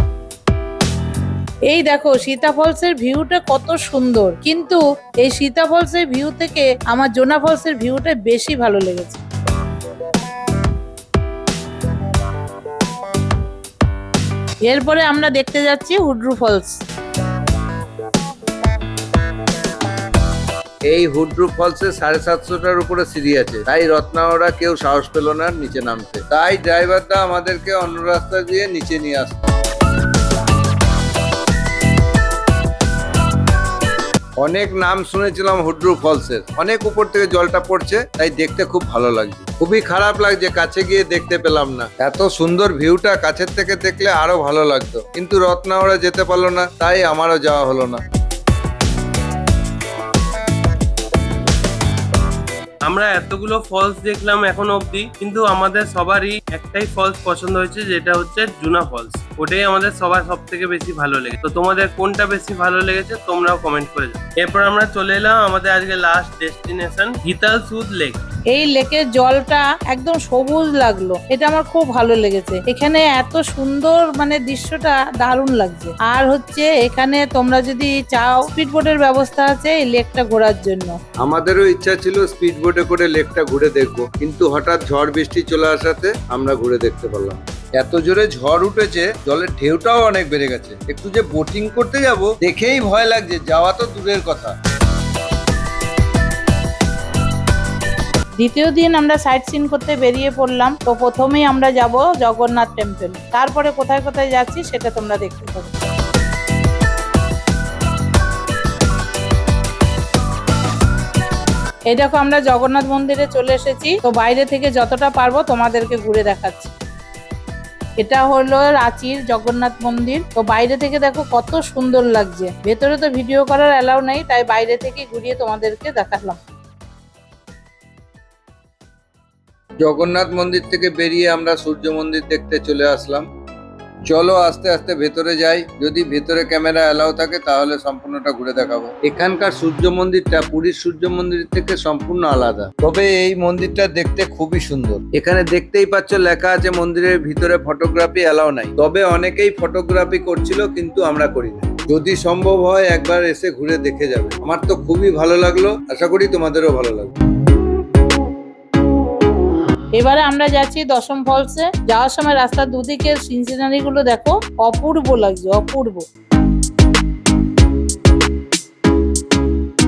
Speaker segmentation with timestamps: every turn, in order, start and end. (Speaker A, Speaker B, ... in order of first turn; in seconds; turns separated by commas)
Speaker A: 1.7-9.2, Speaker A: 14.6-16.8, Speaker B: 20.9-29.4, Speaker B: 34.4-48.0, Speaker C: 52.8-68.2, Speaker A: 68.5-81.0, Speaker B: 81.2-94.5, Speaker A: 98.4-105.7, Speaker A: 111.9-116.7, Speaker A: 118.0-126.4, Speaker B: 129.8-133.3, Speaker B: 134.1-157.1, Speaker A: 159.9-166.0